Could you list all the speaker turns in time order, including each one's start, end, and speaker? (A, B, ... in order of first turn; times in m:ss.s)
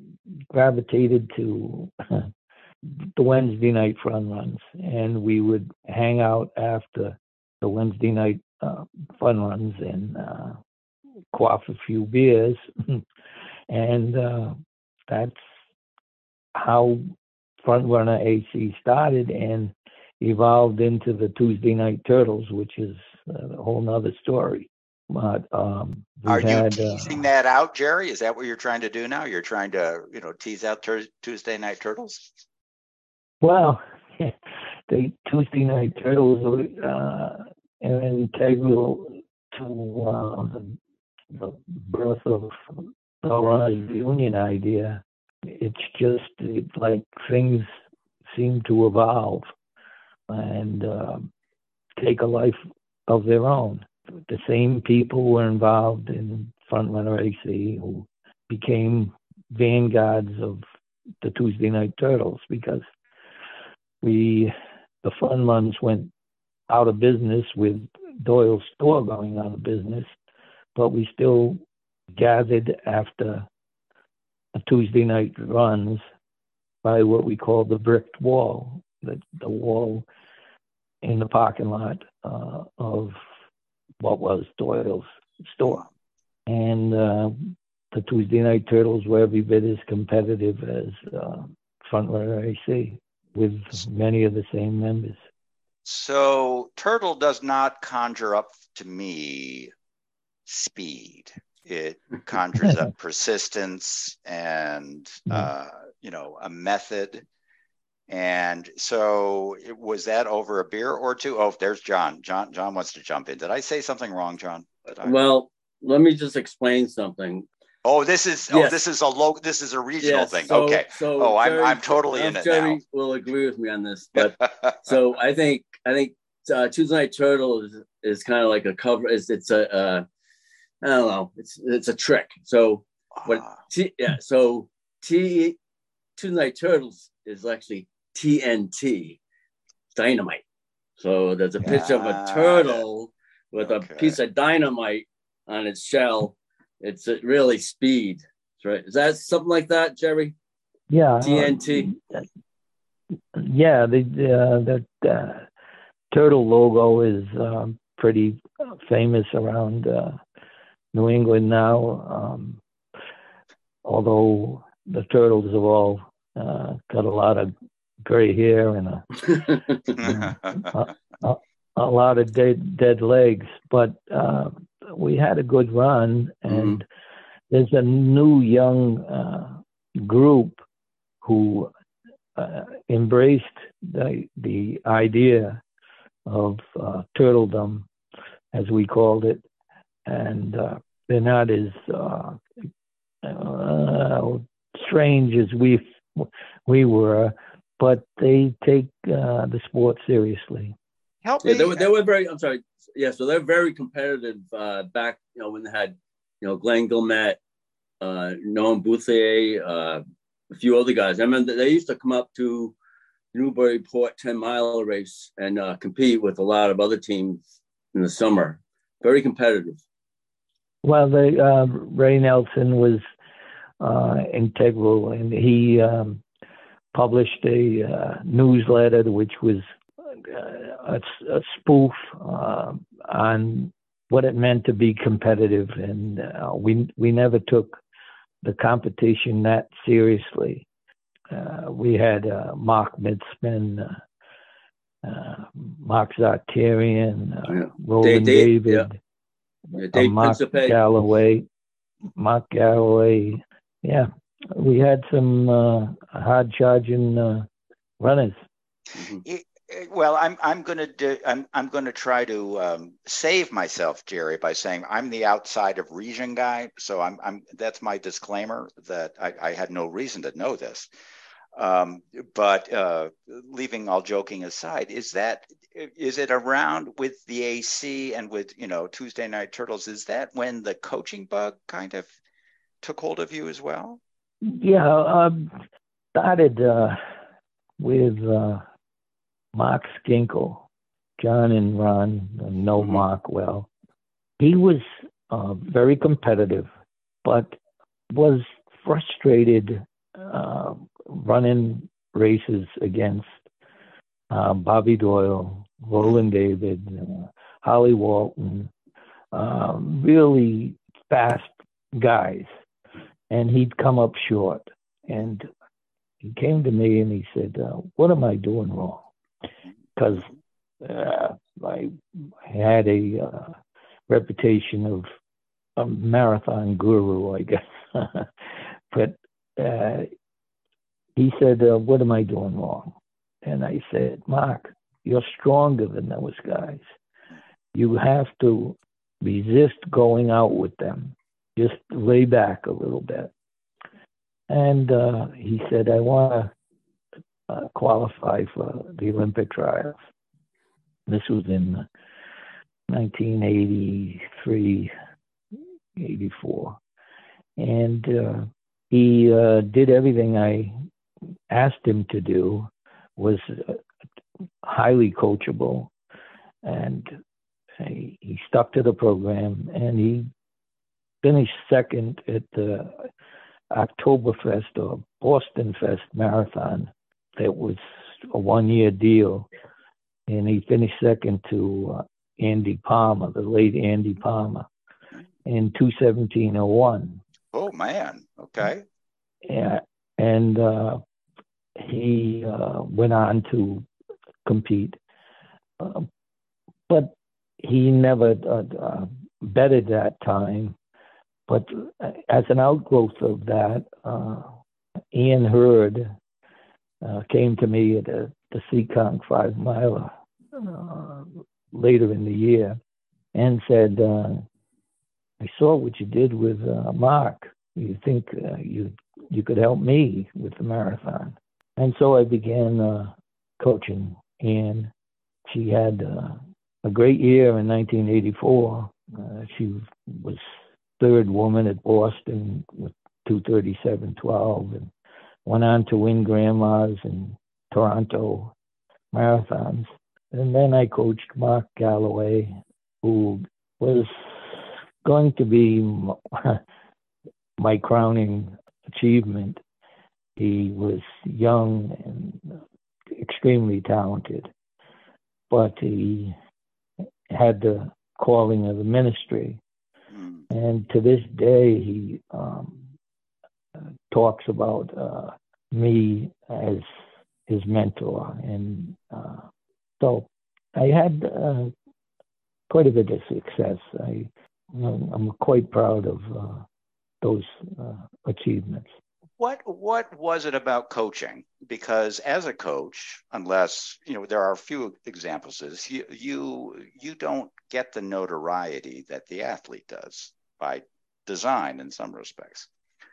0:00.5-0:02.3 A
0:03.2-0:10.6 A
0:11.3-0:13.0 A
0:13.7-0:15.4 A
0:16.6-0:17.1 A
0:17.6-0:27.2 A
0:26.3-0:32.3 B
0:33.4-0:34.3 A
0:34.9-0:40.8 A
0:41.3-0:42.7 A
0:43.2-0:47.7 A
0:48.3-0:49.5 A
0:50.3-0:51.3 A
0:52.0-1:00.6 A
1:01.2-1:02.9 A
1:04.0-1:06.1 A
1:06.7-1:10.1 A
1:10.8-1:11.6 A
1:12.1-1:13.5 A
1:14.6-1:16.0 A
1:16.8-1:20.1 A
1:21.0-1:23.2 A
1:24.0-1:25.8 A
1:26.5-1:35.2 A
1:35.8-1:39.7 B
1:40.5-1:47.2 B
1:48.1-1:55.2 B
1:55.0-1:57.5 C
1:57.8-2:02.8 B
1:58.5-1:58.8 C
2:00.0-2:10.1 C
2:10.8-2:15.6 C
2:13.2-2:13.6 B
2:16.2-2:19.2 C
2:19.9-2:20.4 C
2:21.0-2:30.4 C
2:21.6-2:22.8 B
2:23.6-2:24.2 B
2:30.9-2:32.2 A
2:31.2-2:31.9 C
2:33.3-2:35.5 A
2:36.1-2:40.2 A
2:40.9-2:42.6 A
2:43.8-2:47.5 A
2:48.1-2:49.2 A
2:49.3-2:49.8 C
2:50.0-2:50.7 B
2:50.0-2:56.8 A
2:56.5-2:56.8 C
2:57.5-3:00.6 A
3:01.2-3:01.7 A
3:02.4-3:05.6 A
3:06.3-3:07.9 A
3:08.5-3:09.4 A
3:10.1-3:12.4 A
3:13.2-3:20.8 A
3:21.2-3:21.9 B
3:21.4-3:27.4 C
3:28.0-3:32.8 C
3:33.3-3:39.8 C
3:40.8-3:43.0 A
3:43.8-3:46.2 A
3:46.9-3:57.8 A
3:58.4-4:00.7 A
4:01.3-4:04.0 A
4:05.0-4:09.0 A
4:07.5-4:08.9 C
4:09.8-4:10.8 C
4:09.9-4:11.5 A
4:12.2-4:17.5 A
4:18.0-4:18.4 A
4:19.0-4:19.2 C
4:19.2-4:30.9 B
4:31.6-4:42.1 B
4:42.8-4:44.0 B
4:44.4-4:45.6 A
4:46.2-4:47.0 A
4:47.8-4:48.6 A
4:49.5-4:50.6 A
4:51.2-4:53.7 A
4:54.4-4:56.7 A
4:57.2-4:57.6 A
4:58.1-5:03.4 A
5:04.3-5:08.7 A
5:09.3-5:12.5 A
5:13.3-5:15.5 A
5:16.2-5:19.1 A
5:20.0-5:20.3 A
5:20.8-5:23.6 A
5:24.1-5:25.1 A
5:25.8-5:28.3 A
5:28.9-5:30.1 A
5:31.2-5:36.8 A
5:37.7-5:43.3 A
5:44.5-5:46.5 A
5:47.5-5:50.0 A
5:51.1-5:51.8 A
5:52.9-5:54.9 A
5:56.0-5:56.8 A
5:57.6-6:00.8 A
6:01.5-6:03.8 A
6:04.6-6:05.9 A
6:06.6-6:07.2 A
6:07.8-6:10.3 A
6:11.2-6:13.1 A
6:13.7-6:19.5 A
6:20.3-6:24.7 A
6:25.5-6:27.2 A
6:27.5-6:28.8 B
6:29.4-6:31.0 A
6:31.8-6:33.9 A
6:34.4-6:35.0 A
6:35.8-6:36.1 A
6:36.9-6:40.8 A
6:41.5-6:44.5 A
6:45.1-6:46.2 A
6:47.0-6:52.8 A
6:53.4-6:54.4 A
6:55.4-7:04.9 A
7:05.5-7:10.4 A
7:11.0-7:14.9 A
7:15.5-7:18.5 A
7:19.1-7:26.6 A
7:27.6-7:29.6 A
7:30.4-7:32.6 A
7:33.1-7:34.5 A
7:35.5-7:36.4 A
7:37.3-7:39.6 A
7:40.1-7:40.4 B
7:40.5-7:42.9 A
7:44.1-7:46.9 A
7:47.5-7:49.5 A
7:50.0-7:51.7 A
7:52.7-7:56.6 A
7:57.2-7:58.9 A
7:59.4-8:12.7 B